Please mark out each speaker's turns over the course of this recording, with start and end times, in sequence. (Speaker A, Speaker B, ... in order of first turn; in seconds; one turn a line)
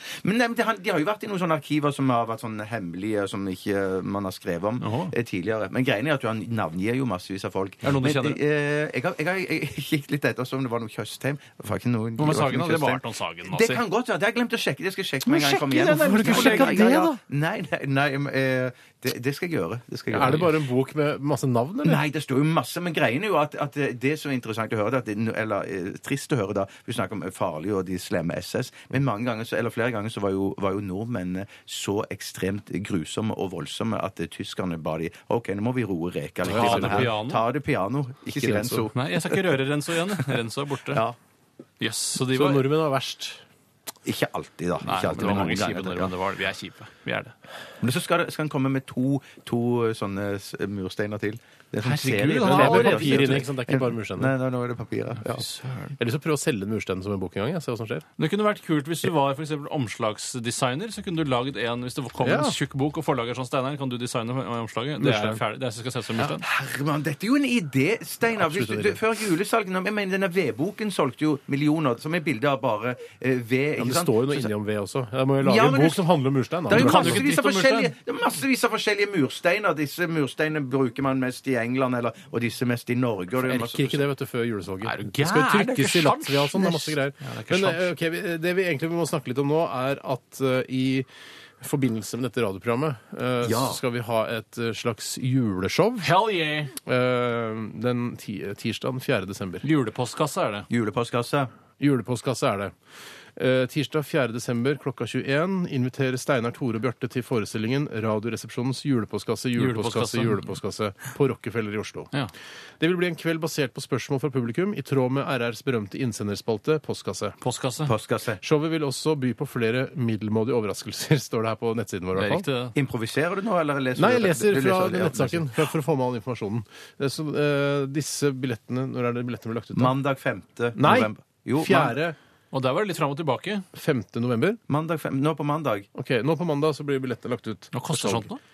Speaker A: 0.2-20.5
Speaker B: 4.8-5.1
Speaker B: 7.8-8.4
Speaker B: 12.2-13.8
Speaker B: 15.2-17.1
Speaker C: 16.1-17.2
Speaker C: 20.1-22.0
Speaker A: 21.8-39.1
Speaker C: 36.5-37.1
Speaker B: 36.5-37.4
Speaker C: 38.4-38.9
Speaker B: 38.9-41.0
Speaker A: 40.9-41.1
Speaker B: 41.8-42.7
Speaker C: 42.3-43.4
Speaker A: 44.0-46.1
Speaker B: 44.8-47.3
Speaker A: 47.8-55.4
Speaker B: 51.8-53.5
Speaker C: 52.4-54.3
Speaker B: 55.2-56.0
Speaker C: 56.0-58.0
Speaker B: 58.2-66.4
Speaker C: 62.2-62.5
Speaker C: 65.0-65.4
Speaker A: 66.2-74.5
Speaker C: 68.3-69.0
Speaker C: 73.8-77.2
Speaker A: 75.4-76.1
Speaker A: 76.7-84.0
Speaker B: 76.7-77.9
Speaker C: 83.4-91.1
Speaker B: 84.8-87.9
Speaker C: 91.6-96.1
Speaker A: 93.4-93.8
Speaker B: 96.0-96.7
Speaker C: 96.8-99.7
Speaker B: 99.6-100.7
Speaker A: 100.7-101.5
Speaker C: 101.8-102.7
Speaker C: 103.3-112.1
Speaker B: 109.5-110.4
Speaker C: 112.8-117.4
Speaker B: 117.4-117.9
Speaker A: 117.8-118.4
Speaker C: 118.4-122.5
Speaker B: 122.1-122.8
Speaker A: 122.7-125.6
Speaker C: 124.0-129.9
Speaker A: 129.7-131.9
Speaker C: 130.8-132.2
Speaker B: 132.5-133.7
Speaker C: 133.7-134.6
Speaker A: 134.7-135.9
Speaker C: 135.9-138.3
Speaker B: 137.7-138.4